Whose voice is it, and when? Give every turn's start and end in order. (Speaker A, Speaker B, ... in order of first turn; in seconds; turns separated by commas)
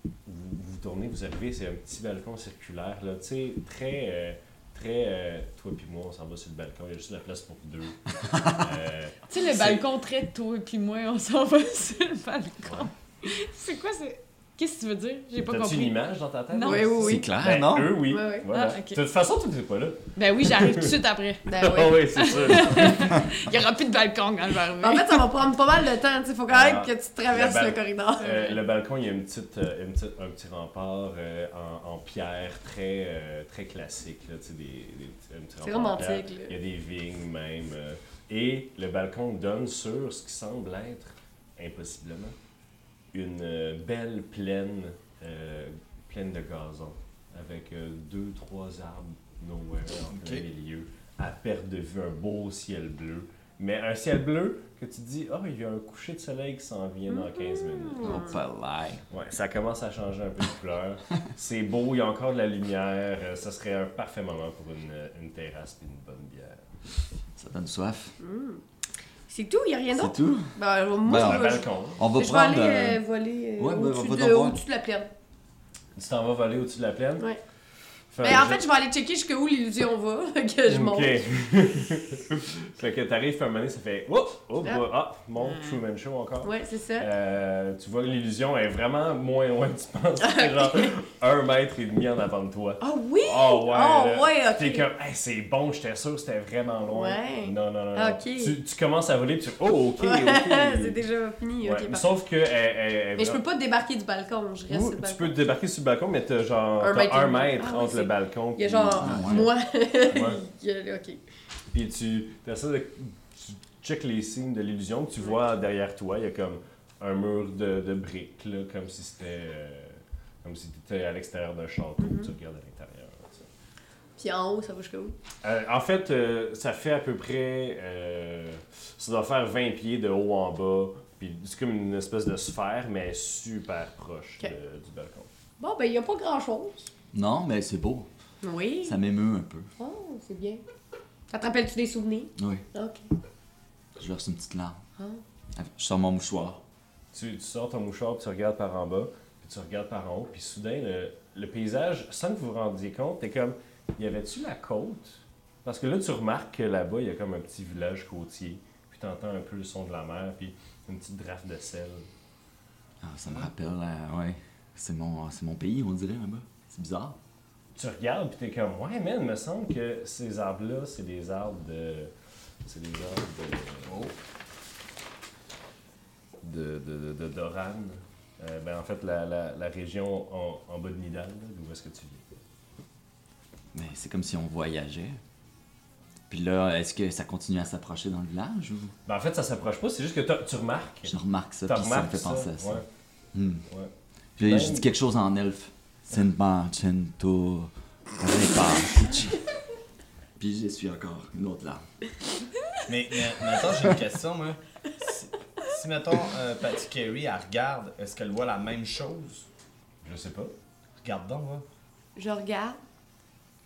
Speaker A: 0.2-9.8, Speaker B: 9.3-16.0, Speaker A: 15.4-20.9, Speaker B: 16.5-17.2, Speaker C: 16.7-17.2, Speaker D: 17.0-18.0, Speaker C: 18.1-18.5, Speaker B: 18.5-19.0, Speaker B: 20.1-21.6, Speaker C: 21.5-22.7, Speaker A: 21.5-23.2, Speaker B: 22.1-25.2, Speaker C: 24.8-28.6, Speaker A: 26.5-42.4, Speaker C: 35.6-36.6, Speaker A: 43.1-58.3, Speaker E: 50.1-50.5, Speaker C: 57.1-58.4, Speaker D: 58.0-59.0, Speaker A: 59.1-66.6, Speaker D: 67.4-68.2, Speaker C: 68.2-68.6, Speaker C: 69.3-75.1, Speaker D: 69.9-73.0, Speaker A: 71.1-72.0, Speaker D: 73.6-74.6, Speaker A: 76.0-77.3, Speaker A: 78.1-78.6, Speaker C: 78.2-81.3, Speaker A: 80.7-101.0, Speaker B: 85.4-85.8, Speaker C: 86.4-87.1, Speaker C: 90.2-91.0, Speaker C: 92.8-94.9, Speaker C: 96.9-98.6, Speaker C: 100.0-102.1, Speaker A: 101.6-103.4, Speaker C: 103.2-105.3, Speaker A: 104.7-109.5, Speaker C: 106.8-111.2, Speaker D: 109.0-109.5, Speaker A: 110.1-110.4, Speaker A: 111.7-123.5, Speaker C: 122.0-122.3, Speaker C: 124.2-125.2, Speaker A: 125.4-135.3, Speaker C: 135.6-136.9, Speaker D: 137.1-138.1, Speaker C: 138.4-139.0, Speaker D: 138.8-139.7, Speaker C: 139.8-140.6, Speaker C: 141.3-143.1, Speaker D: 142.4-142.6, Speaker D: 144.0-144.8, Speaker D: 145.6-146.6, Speaker A: 147.1-162.1, Speaker D: 163.0-167.2, Speaker A: 167.8-172.1, Speaker A: 172.7-174.1, Speaker E: 173.9-174.1, Speaker A: 176.4-182.3, Speaker D: 183.7-185.2, Speaker D: 186.3-188.9, Speaker A: 189.1-191.2, Speaker D: 191.1-192.8, Speaker A: 191.7-192.9, Speaker D: 193.3-193.6, Speaker A: 193.7-194.9, Speaker D: 194.4-199.4, Speaker D: 200.4-201.8, Speaker E: 202.9-209.5, Speaker A: 210.0-210.5, Speaker E: 211.0-211.7, Speaker C: 212.2-212.8